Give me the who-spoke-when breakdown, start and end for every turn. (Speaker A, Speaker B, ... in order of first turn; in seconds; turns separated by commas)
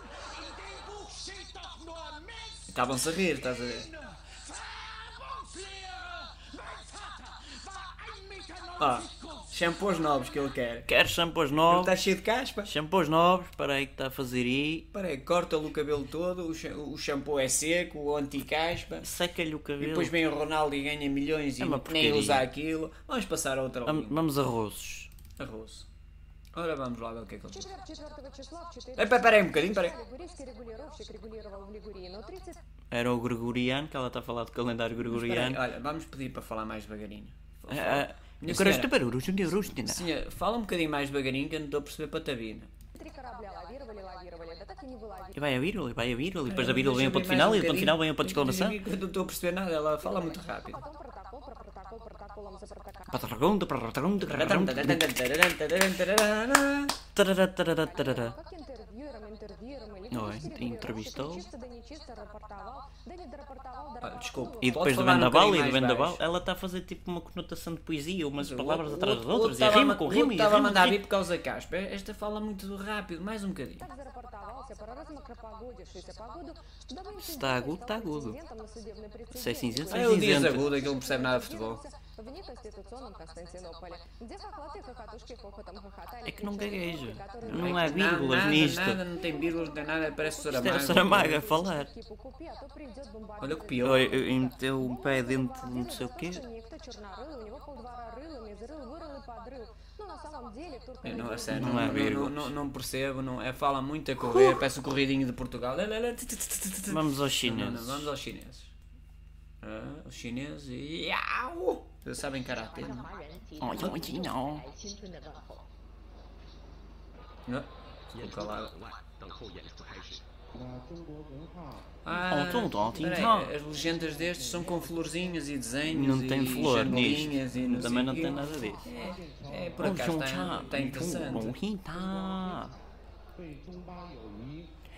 Speaker A: 0.2-2.6, Speaker B: 2.7-3.9, Speaker A: 4.0-9.4, Speaker B: 8.8-10.9, Speaker C: 10.8-11.9, Speaker B: 11.7-12.7, Speaker C: 12.6-14.9, Speaker B: 14.9-19.1, Speaker C: 19.0-20.1, Speaker B: 19.8-24.2, Speaker C: 21.6-22.5, Speaker C: 23.9-25.1, Speaker B: 25.4-25.9, Speaker B: 26.5-27.7, Speaker D: 27.5-32.6, Speaker B: 29.0-29.9, Speaker C: 32.9-35.6, Speaker B: 35.0-38.9, Speaker C: 37.7-40.0, Speaker B: 39.6-42.7, Speaker D: 42.9-45.4, Speaker C: 45.3-48.8, Speaker B: 46.5-50.8, Speaker D: 50.0-53.2, Speaker C: 53.1-55.0, Speaker B: 54.3-56.9, Speaker C: 57.1-58.3, Speaker D: 57.8-64.7, Speaker C: 60.1-61.5, Speaker B: 64.0-66.2, Speaker C: 64.6-71.0, Speaker B: 68.4-73.8, Speaker D: 73.8-88.0, Speaker C: 77.2-78.4, Speaker C: 79.3-80.7, Speaker B: 79.9-81.8, Speaker C: 86.2-89.0, Speaker B: 87.5-91.4, Speaker D: 89.2-101.6, Speaker C: 90.5-91.9, Speaker B: 93.4-94.1, Speaker C: 93.8-96.4, Speaker B: 101.0-108.7, Speaker C: 101.5-102.5, Speaker C: 104.2-104.6, Speaker C: 106.9-108.1, Speaker B: 109.6-113.1, Speaker E: 113.2-115.5, Speaker C: 113.6-114.7, Speaker B: 117.5-118.7, Speaker A: 118.3-120.2, Speaker A: 120.9-121.3, Speaker B: 122.0-131.6, Speaker C: 122.3-123.5, Speaker C: 125.9-128.9, Speaker A: 129.3-129.9, Speaker C: 129.8-132.7, Speaker A: 133.5-134.7